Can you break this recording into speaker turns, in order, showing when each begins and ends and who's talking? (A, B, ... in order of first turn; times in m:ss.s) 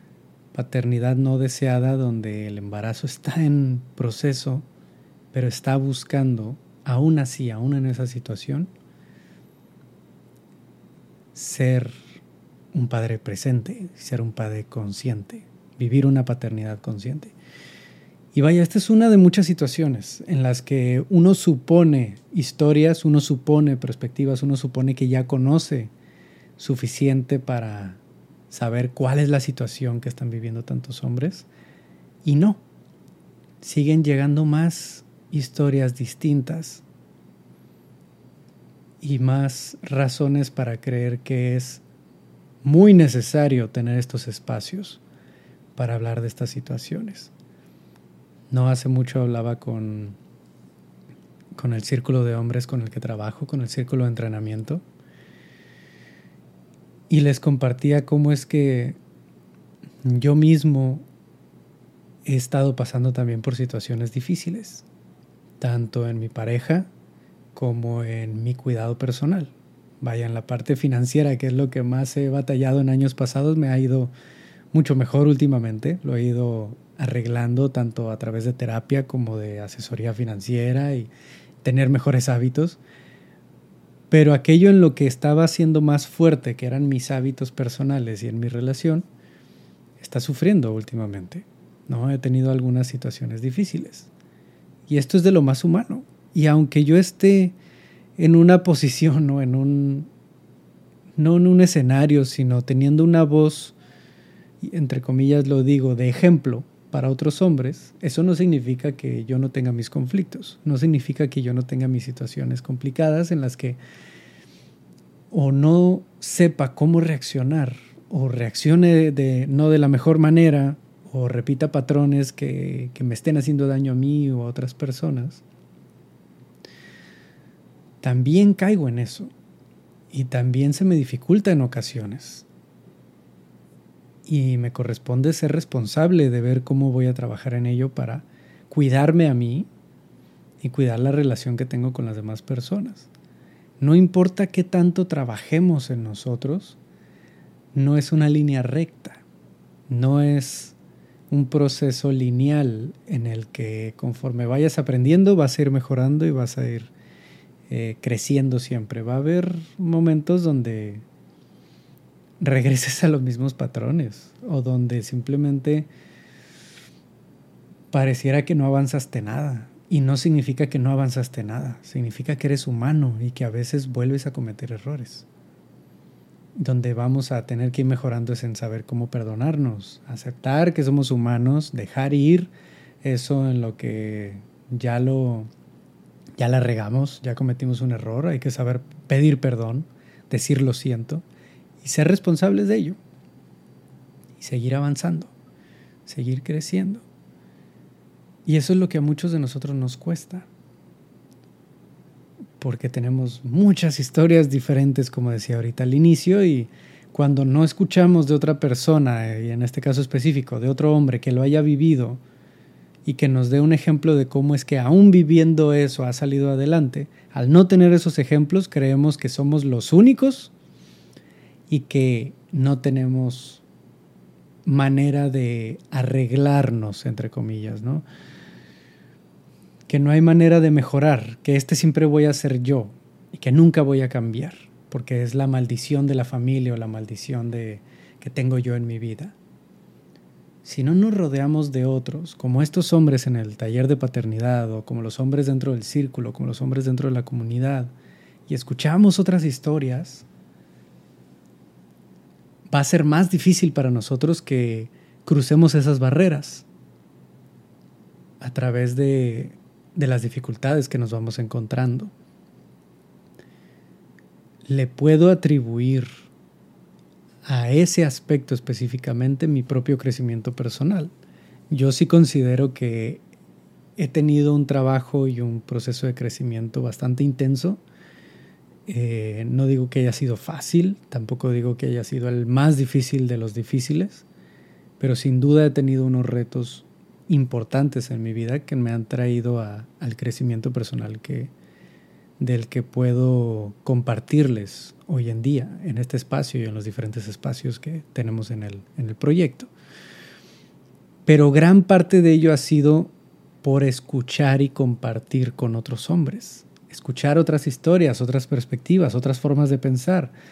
0:00.5-0:04.7 A
0:05.3-0:08.7 A
0:11.3-0:12.0 A
0:12.7-0:17.4 A
0:18.3-0:25.9 A
0:26.6-0:31.5 A
0:32.2-0:32.6 A
0:33.6-0:36.8 A
0:39.0-0:41.8 A
0:42.6-0:45.0 A
0:45.8-0:47.3 A
0:48.5-0:50.2 A
0:51.6-0:54.8 A
0:57.1-0:59.0 A
1:00.0-1:01.0 A
1:02.2-1:04.9 A
1:05.6-1:06.9 A
1:07.5-1:14.1 A
1:14.7-1:21.1 A
1:21.6-1:22.8 A
1:24.1-1:29.1 A
1:30.0-1:34.1 A
1:34.9-1:37.6 A
1:38.2-1:40.1 A
1:41.2-1:43.8 A
1:44.6-1:53.8 A
1:55.3-2:05.4 A
2:08.0-2:09.3 A
2:10.1-2:12.5 A
2:14.3-2:19.7 A
2:20.6-2:23.1 A
2:23.8-2:26.8 A
2:27.7-2:29.2 A
2:29.9-2:30.8 A
2:31.3-2:36.9 A
2:37.7-2:41.0 A
2:42.4-2:45.9 A
2:47.9-2:55.3 A
2:56.6-3:02.5 A
3:03.0-3:05.5 A
3:06.4-3:11.2 A
3:11.8-3:13.0 A
3:14.4-3:15.3 A
3:16.1-3:17.0 A
3:18.5-3:20.5 A
3:22.6-3:32.2 A
3:33.0-3:40.5 A
3:41.7-3:43.6 A
3:44.7-3:48.1 A
3:49.9-3:59.4 A
4:00.6-4:07.9 A
4:08.5-4:10.2 A
4:12.7-4:16.7 A
4:18.4-4:22.1 A
4:24.7-4:26.2 A
4:27.4-4:31.1 A
4:31.7-4:33.2 A
4:34.0-4:37.8 A
4:38.9-4:44.3 A
4:45.0-4:51.5 A
4:52.4-4:59.7 A
5:01.3-5:10.3 A